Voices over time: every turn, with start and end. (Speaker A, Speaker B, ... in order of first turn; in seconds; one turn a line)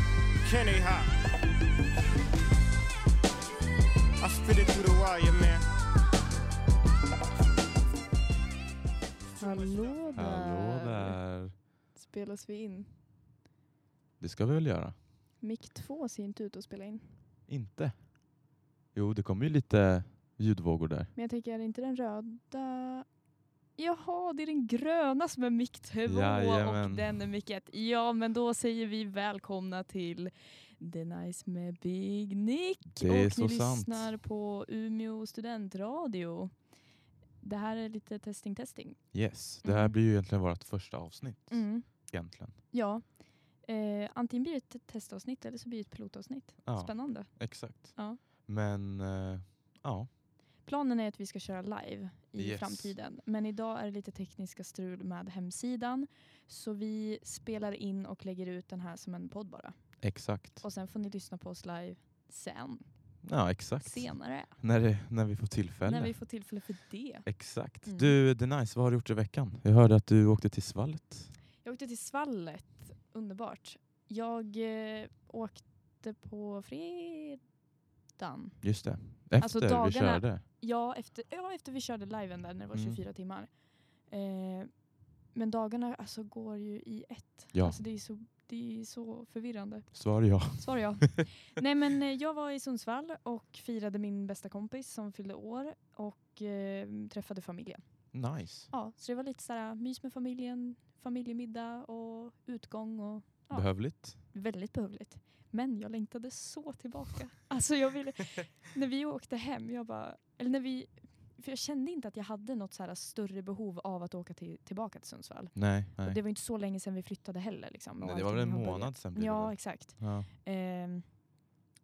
Speaker A: 0.4-1.1
Speaker A: 4.2-5.6
Speaker B: 9.4-11.2
Speaker A: 9.5-10.2
Speaker C: 10.1-11.6
Speaker B: 11.9-12.9
Speaker C: 14.2-15.0
Speaker B: 15.4-17.2
Speaker C: 17.5-18.4
Speaker C: 18.9-21.1
Speaker B: 21.1-23.1
Speaker B: 23.8-36.7
Speaker C: 26.1-27.1
Speaker C: 32.9-34.2
Speaker B: 37.4-40.0
Speaker C: 39.1-42.6
Speaker B: 41.5-42.1
Speaker B: 42.7-48.2
Speaker C: 46.6-50.1
Speaker B: 50.6-64.6
Speaker C: 52.4-52.9
Speaker C: 60.0-60.6
Speaker C: 63.2-66.3
Speaker B: 65.8-68.2
Speaker C: 67.2-71.3
Speaker B: 71.6-77.5
Speaker B: 78.2-121.3
Speaker C: 78.6-80.4
Speaker C: 82.7-83.0
Speaker C: 87.5-87.8
Speaker C: 89.9-91.2
Speaker C: 98.1-98.7
Speaker C: 103.5-104.2
Speaker C: 115.5-116.2
Speaker C: 118.0-120.3